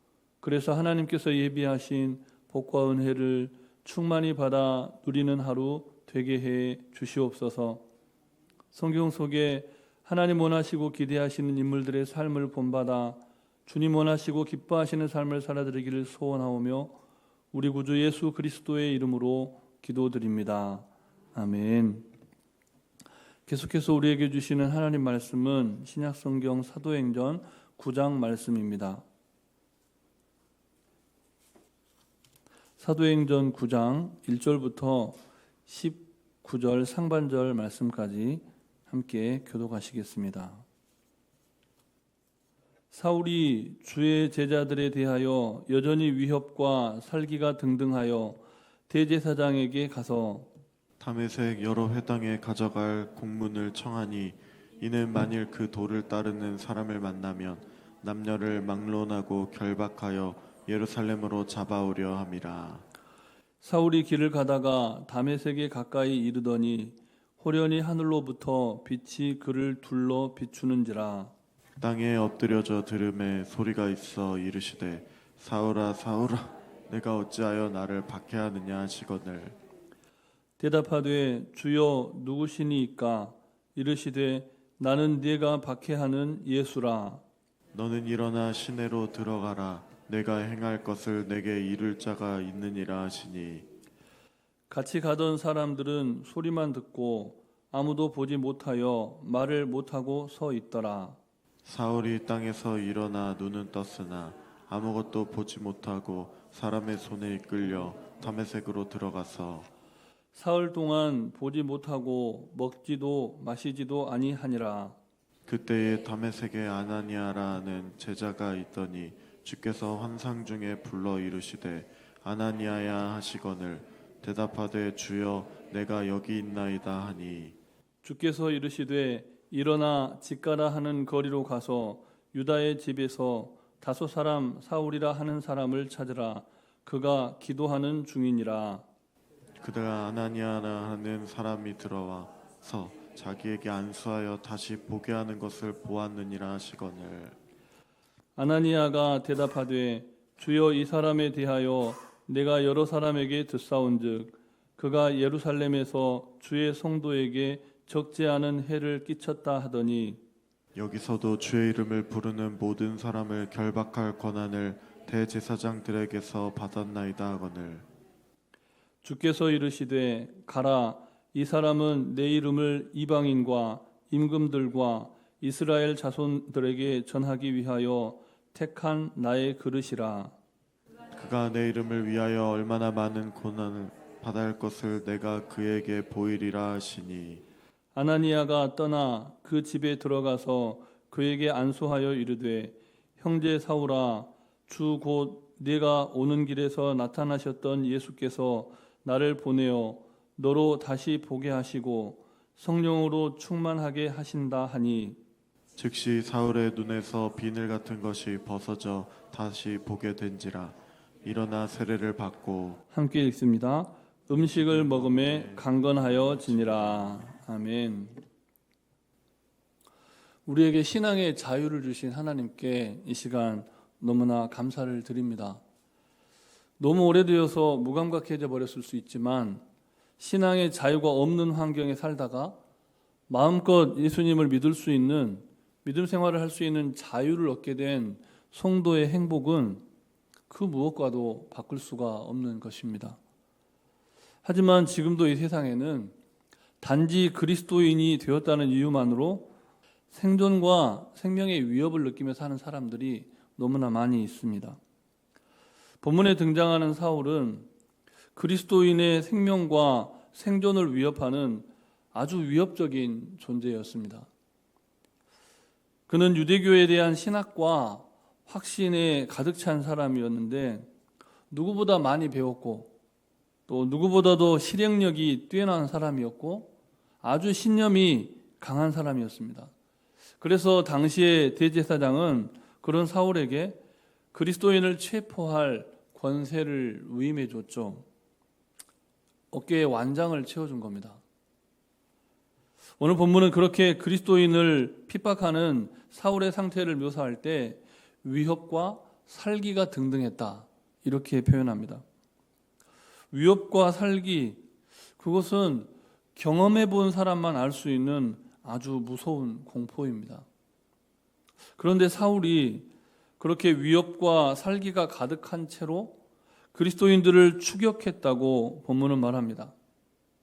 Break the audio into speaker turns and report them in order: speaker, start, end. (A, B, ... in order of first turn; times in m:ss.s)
0:00.4-0:07.8 A
0:08.7-0:17.0 A
0:17.5-0:22.1 A
0:23.5-0:29.0 A
0:32.8-0:40.6 A
0:42.9-0:50.5 A
0:51.0-1:02.8 B
1:03.6-1:11.3 A
1:11.8-1:19.6 B
1:20.6-1:27.2 A
1:27.7-1:33.7 B
1:34.7-1:41.2 A
1:41.6-1:49.7 B
1:50.3-1:55.0 A
1:55.5-2:07.6 B
2:08.0-2:18.8 A
2:19.6-2:27.4 B
2:28.4-2:40.2 A
2:40.8-2:47.9 B
2:49.0-3:00.4 A
3:01.1-3:07.4 B
3:08.0-3:25.2 A
3:25.8-3:32.8 B
3:32.9-3:38.2 A
3:34.4-3:37.3 B
3:40.5-3:45.6 A
3:46.8-3:49.6 A
3:50.2-3:52.6 A
3:53.3-3:59.8 A
4:00.5-4:03.2 A
4:04.4-4:06.1 A
4:06.8-4:09.5 A
4:10.1-4:14.8 A
4:16.0-4:17.7 A
4:18.4-4:24.3 A
4:26.1-4:30.9 A
4:31.5-4:32.9 A
4:33.7-4:36.7 A
4:37.2-4:39.7 A
4:40.4-4:43.8 A
4:44.3-4:48.0 A
4:49.5-4:51.2 A
4:53.0-5:02.0 A
5:03.3-5:04.6 A
5:05.2-5:10.5 A
5:11.8-5:12.9 A
5:13.4-5:16.2 A
5:16.7-5:19.8 A